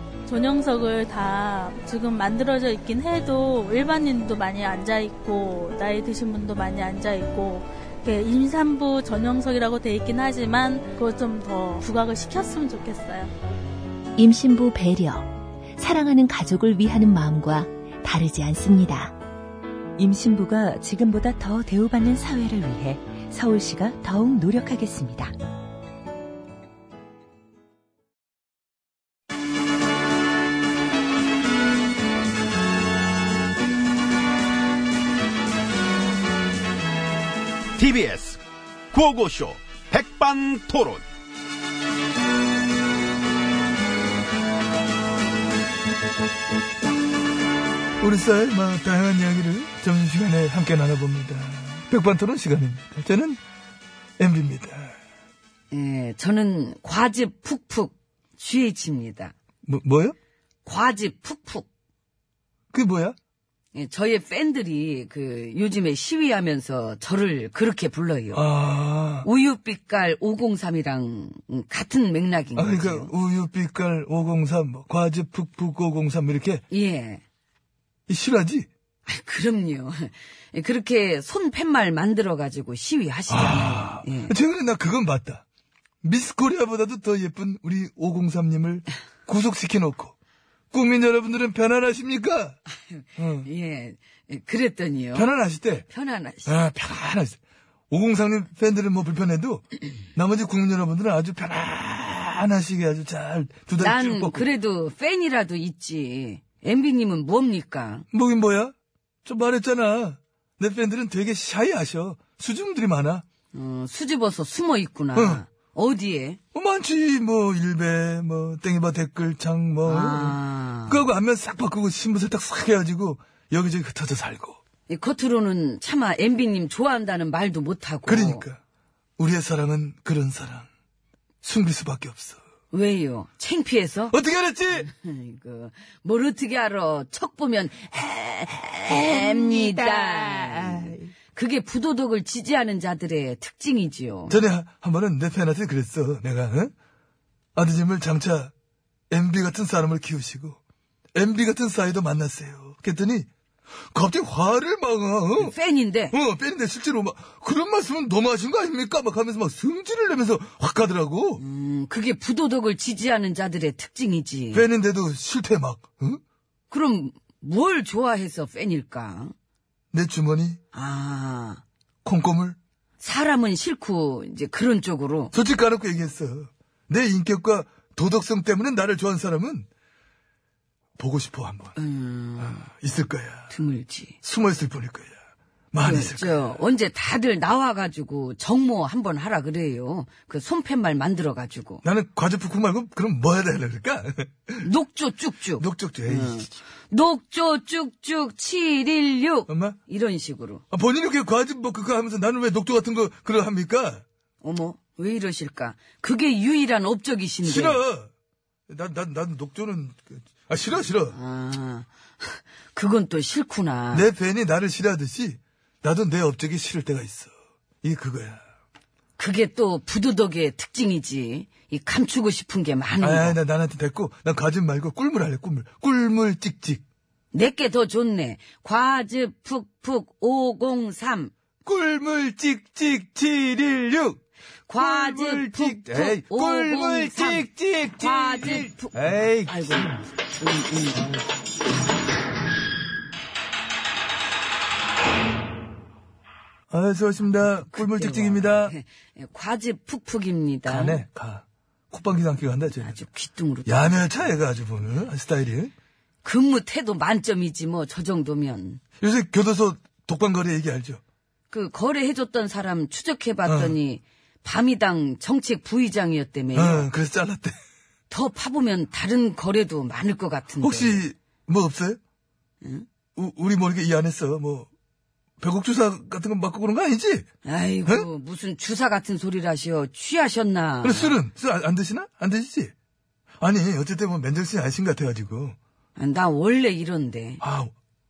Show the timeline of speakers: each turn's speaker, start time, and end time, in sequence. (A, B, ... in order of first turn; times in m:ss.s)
0:00.3-0:13.3 A
0:14.2-0:15.3 B
0:14.3-0:15.2 C
0:15.8-0:17.5 C
0:15.8-0:19.1 B
0:20.0-0:25.3 C
0:37.8-0:41.0 D
0:48.0-0:53.4 E
0:54.2-0:54.9 E
0:55.7-0:59.3 F
0:59.6-1:00.1 E
1:00.6-1:01.7 F
1:02.7-1:03.2 E
1:03.7-1:08.5 F
1:08.3-1:09.3 E
1:09.2-1:13.1 F
1:12.6-1:16.6 E
1:16.7-1:17.2 F
1:18.1-1:18.7 E
1:19.0-1:24.4 F
1:23.3-1:25.4 E
1:26.0-1:30.1 E
1:30.7-1:32.6 E
1:32.7-1:35.3 F
1:33.2-1:33.5 E
1:35.1-1:35.9 E
1:35.9-1:36.6 F
1:36.4-1:37.4 E
1:37.9-1:44.4 E
1:43.8-1:48.0 F
1:48.1-1:48.7 E
1:49.2-1:53.2 E
1:53.5-1:56.4 F
1:55.1-1:55.4 E
1:56.5-2:04.6 E
1:59.8-2:01.0 F
2:04.9-2:08.5 F
2:08.1-2:08.6 E
2:09.2-2:10.7 E
2:11.4-2:12.4 E
2:12.7-2:14.1 F
2:14.1-2:14.9 E
2:14.7-2:24.4 F
2:24.3-2:26.7 E
2:27.5-2:28.5 E
2:29.1-2:30.6 E
2:31.1-2:33.3 E
2:33.9-2:35.5 E
2:35.4-2:36.2 F
2:36.1-2:41.4 E
2:41.4-2:44.7 F
2:44.5-2:46.2 E
2:46.7-2:49.3 F
2:49.9-2:50.6 E
2:50.7-2:51.6 F
2:52.0-2:52.6 E
2:53.0-2:55.3 F
2:55.3-2:59.7 E
3:01.0-3:01.8 E
3:01.7-3:02.7 F
3:02.4-3:03.6 E
3:03.5-3:04.2 F
3:04.2-3:05.1 E
3:05.7-3:06.6 E
3:05.8-3:11.8 F
3:11.8-3:14.7 E
3:14.6-3:20.6 F
3:15.6-3:16.6 E
3:19.5-3:19.8 E
3:20.7-3:24.0 E
3:24.4-3:27.8 F
3:27.4-3:28.1 E
3:28.7-3:31.2 E
3:31.1-3:34.1 F
3:33.9-3:37.3 E
3:37.8-3:38.4 E
3:39.2-3:43.4 F
3:43.0-3:46.8 E
3:47.3-3:51.3 F
3:51.6-3:54.2 E
3:54.7-4:01.1 F
3:54.8-3:59.5 E
4:06.7-4:08.7 E
4:07.6-4:11.0 F
4:10.6-4:13.0 E
4:12.7-4:14.4 F
4:13.6-4:15.7 E
4:16.2-4:18.8 F
4:19.0-4:21.0 E
4:21.5-4:26.9 F
4:23.4-4:23.8 E
4:26.5-4:27.6 E
4:28.1-4:31.0 F
4:30.6-4:32.0 E
4:33.2-4:34.7 E
4:35.4-4:37.2 E
4:37.4-4:41.2 F
4:40.8-4:42.7 E
4:43.4-4:45.6 E
4:46.0-4:47.4 F
4:47.4-4:47.7 E